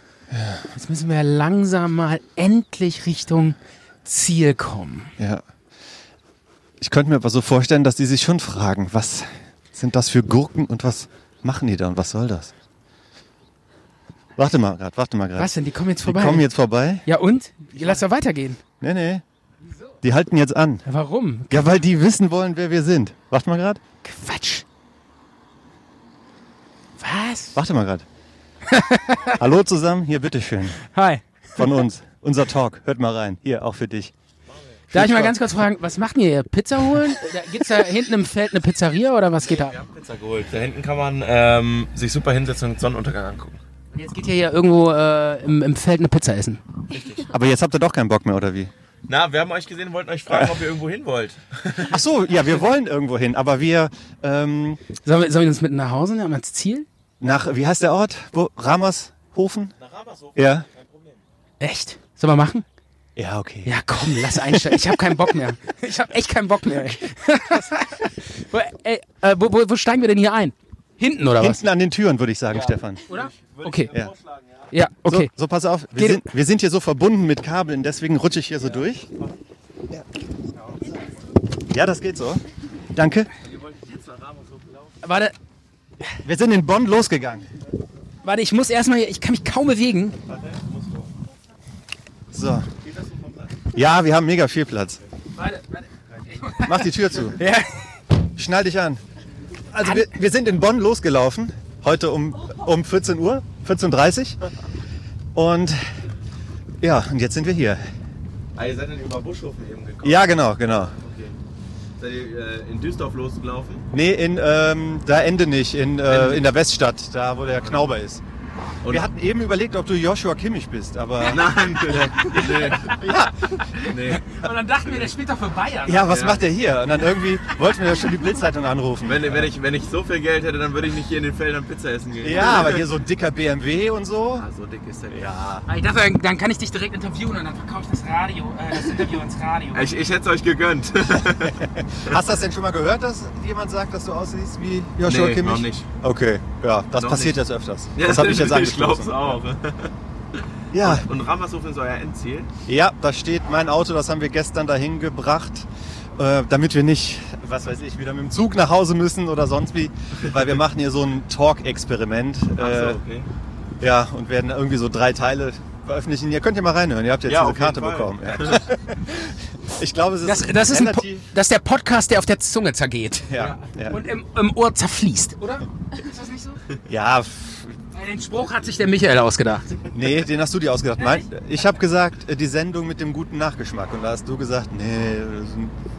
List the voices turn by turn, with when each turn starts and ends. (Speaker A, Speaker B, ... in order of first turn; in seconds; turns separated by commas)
Speaker A: 0.3-0.7, Speaker B: 0.7-5.1, Speaker A: 6.8-12.5, Speaker A: 14.4-17.0, Speaker B: 15.4-16.5, Speaker B: 17.1-18.6, Speaker A: 17.7-18.0, Speaker A: 18.8-19.2, Speaker A: 20.0-20.8, Speaker B: 20.9-21.7, Speaker A: 21.5-23.8, Speaker B: 24.0-24.6, Speaker B: 27.0-27.6, Speaker A: 27.5-28.1, Speaker B: 28.7-29.4, Speaker A: 29.3-30.8, Speaker B: 30.8-31.7, Speaker A: 31.6-34.1, Speaker A: 34.9-35.4, Speaker B: 34.9-39.8, Speaker C: 39.4-43.6, Speaker B: 43.9-46.6, Speaker C: 46.9-47.3, Speaker A: 47.3-48.7, Speaker C: 49.0-52.0, Speaker A: 50.3-50.5, Speaker A: 51.8-54.8, Speaker B: 55.0-56.9, Speaker A: 57.2-59.7, Speaker C: 59.8-61.2, Speaker A: 60.3-60.7, Speaker B: 61.6-62.6, Speaker A: 63.1-65.2, Speaker B: 63.6-71.6, Speaker A: 71.4-73.0, Speaker C: 72.5-74.7, Speaker B: 73.1-73.9, Speaker B: 74.7-75.3, Speaker A: 75.0-79.1, Speaker B: 76.0-76.2, Speaker C: 78.6-79.3, Speaker C: 80.6-81.0, Speaker A: 81.6-83.3, Speaker C: 83.4-85.0, Speaker B: 85.0-85.3, Speaker A: 86.2-87.5, Speaker B: 88.2-90.2, Speaker C: 90.3-91.1, Speaker A: 92.3-92.7, Speaker C: 92.8-93.7, Speaker A: 93.7-95.0, Speaker B: 95.4-97.9, Speaker A: 96.6-97.4, Speaker A: 98.3-99.0, Speaker A: 99.7-104.4, Speaker B: 99.8-100.1, Speaker A: 105.3-105.8, Speaker A: 106.8-107.8, Speaker C: 108.5-110.3, Speaker A: 110.0-111.0, Speaker C: 110.9-111.3, Speaker C: 112.0-113.9, Speaker A: 113.9-118.2, Speaker C: 116.0-116.5, Speaker C: 117.5-117.9, Speaker C: 118.8-119.1, Speaker A: 118.9-123.6, Speaker C: 121.2-123.0, Speaker C: 123.7-124.2, Speaker B: 123.8-126.1, Speaker A: 125.8-129.5, Speaker C: 126.1-126.5, Speaker C: 129.0-132.9, Speaker A: 132.2-134.4, Speaker C: 134.3-135.4, Speaker A: 135.1-135.6, Speaker B: 135.7-139.9, Speaker C: 139.7-142.2, Speaker A: 141.6-149.4, Speaker C: 145.0-145.8, Speaker C: 146.9-147.4, Speaker C: 147.9-149.9, Speaker A: 150.7-151.1, Speaker C: 150.8-152.5, Speaker A: 152.7-163.0, Speaker C: 162.6-163.3, Speaker A: 163.8-171.3, Speaker C: 167.2-168.7, Speaker B: 170.2-173.3, Speaker A: 173.3-174.0, Speaker C: 173.3-173.7, Speaker B: 173.9-176.6, Speaker A: 176.8-177.8, Speaker B: 177.9-179.8, Speaker A: 179.9-185.7, Speaker B: 181.0-181.2